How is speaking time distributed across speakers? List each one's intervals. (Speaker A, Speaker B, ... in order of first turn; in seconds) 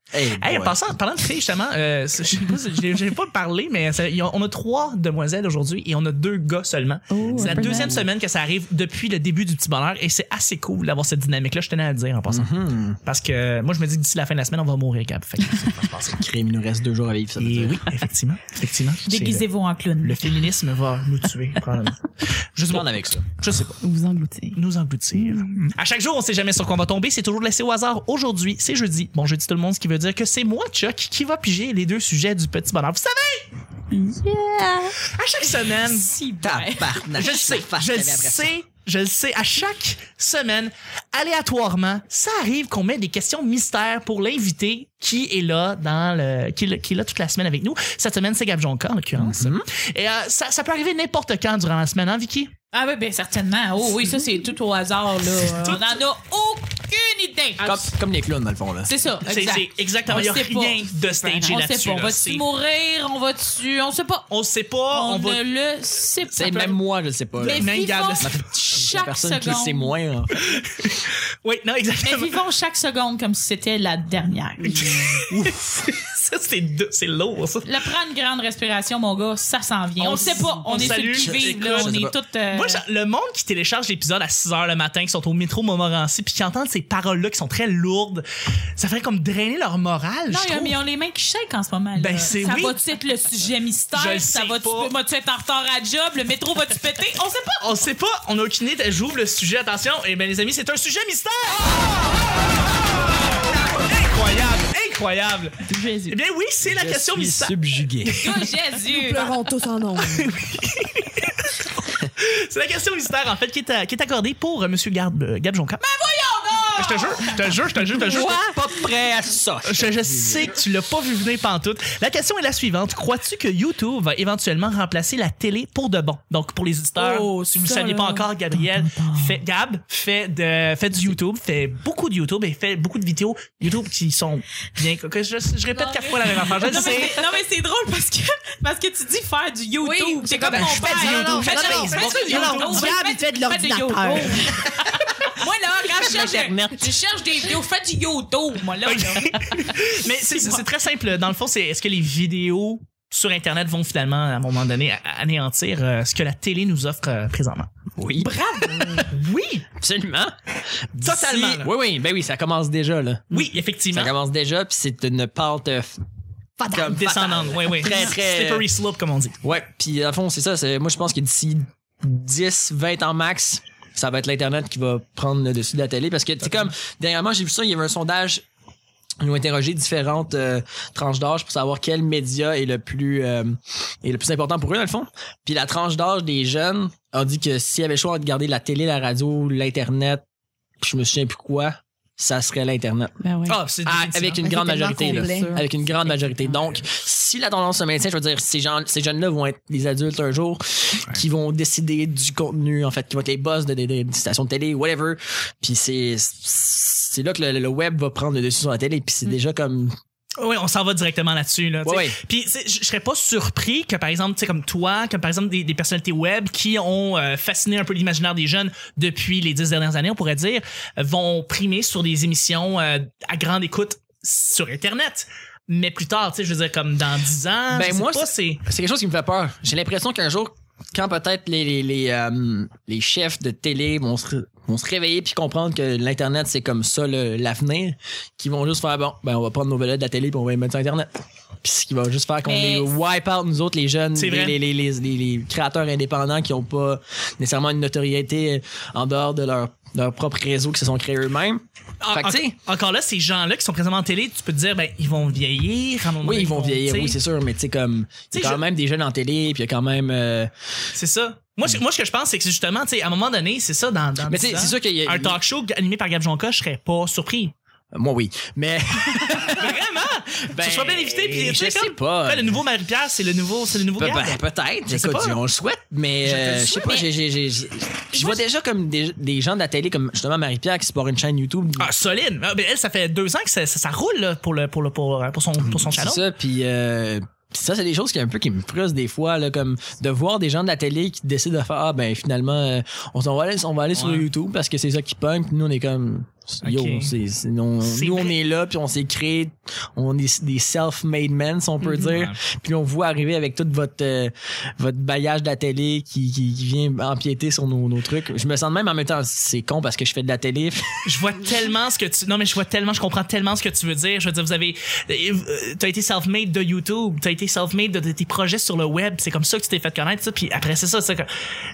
Speaker A: 0.1-0.8, 7.2-8.1, 12.3-13.0, 16.1-17.9, 22.7-23.2, 36.4-38.5, 49.1-49.7, 57.6-58.9, 66.3-70.4, 80.7-82.1, 106.6-108.2, 118.0-120.6, 146.0-146.9, 158.0-159.0, 159.7-160.3, 160.9-166.0, 166.7-168.7, 169.4-178.4, 179.2-190.2, 190.8-209.9, 211.8-212.2, 227.7-241.1, 241.6-252.5, 256.2-260.5, 264.3-265.4, 267.9-269.8, 270.5-272.6, 274.0-281.9, 285.6-311.0
Speaker B: 0.4-12.5, 13.0-16.2, 17.4-19.4, 20.0-23.8, 24.5-33.5, 35.1-36.1, 37.1-52.5, 55.5-56.0, 57.6-57.9, 59.2-62.4, 64.3-65.4, 67.4-68.3, 70.5-72.3, 74.7-77.7, 80.0-82.0, 82.5-88.2, 88.8-90.8, 92.0-92.8, 93.9-94.9, 97.6-107.6, 110.0-115.8, 116.8-118.4, 119.6-137.2, 140.5-143.0, 148.8-157.7, 158.9-159.6, 161.0-161.7, 163.3-164.1, 166.6-169.4, 176.4-176.7, 193.5-194.8, 210.4-228.6, 244.2-244.6, 252.0-257.2, 258.3-258.6, 260.9-267.5, 269.3-275.4, 276.2-277.0, 281.8-286.3, 293.9-294.3, 296.6-297.1, 297.8-298.4, 301.9-302.4, 311.0-321.3
Speaker C: 7.1-8.1, 23.8-24.6, 25.1-25.4, 33.9-35.0, 80.1-80.6, 105.6-106.2, 193.2-193.6, 194.9-196.5
Speaker D: 19.1-20.4, 35.7-37.0, 52.7-57.7, 58.9-64.3, 64.9-66.8, 67.4-69.9, 72.0-75.0, 77.6-82.8, 90.3-97.6, 108.2-109.3, 115.8-117.6, 127.0-128.2, 135.7-144.6, 145.3-149.7, 150.2-150.6, 158.2-159.0, 242.4-242.9
Speaker E: 108.9-110.3, 139.8-144.7, 194.4-195.6